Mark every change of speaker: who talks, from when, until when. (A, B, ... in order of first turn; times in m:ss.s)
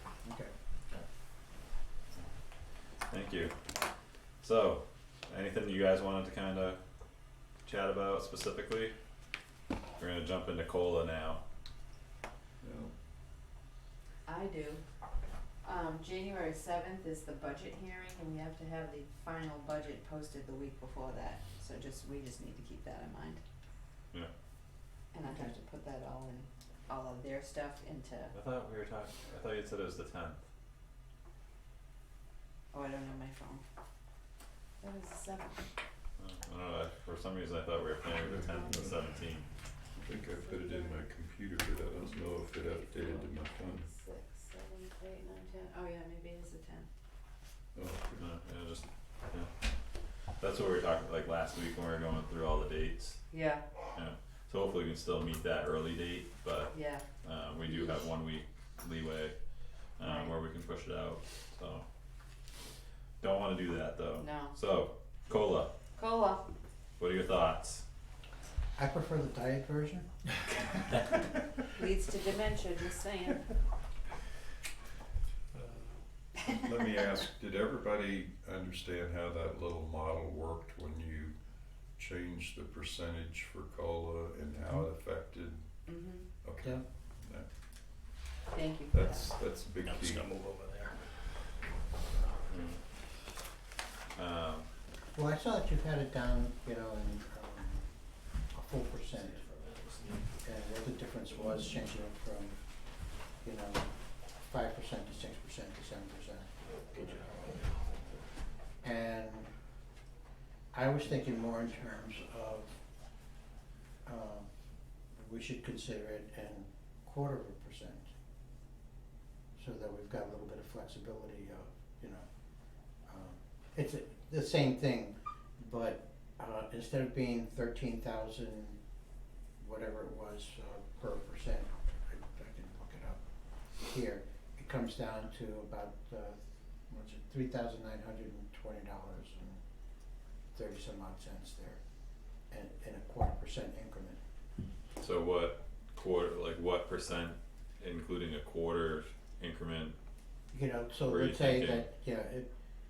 0:00.2-0:00.5 A
0:03.1-0:03.5 B
0:04.4-0:06.8 B
0:07.6-0:08.9 B
0:10.0-0:11.4 B
0:12.6-0:12.9 C
0:14.2-0:14.8 D
0:15.6-0:23.4 D
0:25.1-0:28.3 D
0:25.2-0:25.5 A
0:28.3-0:30.4 B
0:32.7-0:33.6 D
0:34.8-0:35.6 D
0:36.2-0:39.4 B
0:38.1-0:39.0 C
0:39.9-0:43.9 C
0:40.3-0:41.0 D
0:42.6-0:46.9 D
0:47.7-0:48.3 C
0:48.2-0:49.5 B
0:50.4-0:53.2 B
0:53.3-0:53.6 D
0:53.9-0:59.3 B
0:56.7-0:57.0 D
1:00.0-1:01.8 B
1:00.0-1:00.3 D
1:03.2-1:05.7 B
1:04.2-1:04.6 D
1:06.0-1:06.5 D
1:07.0-1:07.8 B
1:08.8-1:10.1 A
1:11.7-1:13.4 D
1:16.4-1:21.4 C
1:21.9-1:27.5 C
1:25.9-1:26.3 D
1:28.5-1:29.3 D
1:28.9-1:30.3 C
1:29.8-1:31.0 E
1:32.5-1:32.8 B
1:34.1-1:34.7 B
1:35.1-1:37.9 A
1:38.5-1:39.5 A
1:39.1-1:40.2 E
1:40.4-1:42.6 A
1:43.4-1:46.5 A
1:46.9-1:48.0 E
1:48.8-1:49.5 A
1:50.7-1:52.7 A
1:54.0-1:54.5 A
1:55.1-1:58.1 A
1:59.6-2:02.2 A
2:03.1-2:08.8 A
2:09.6-2:13.2 A
2:13.8-2:19.6 A
2:20.5-2:21.8 A
2:22.5-2:24.2 A
2:25.0-2:29.9 B
2:30.5-2:32.5 A
2:31.1-2:31.9 B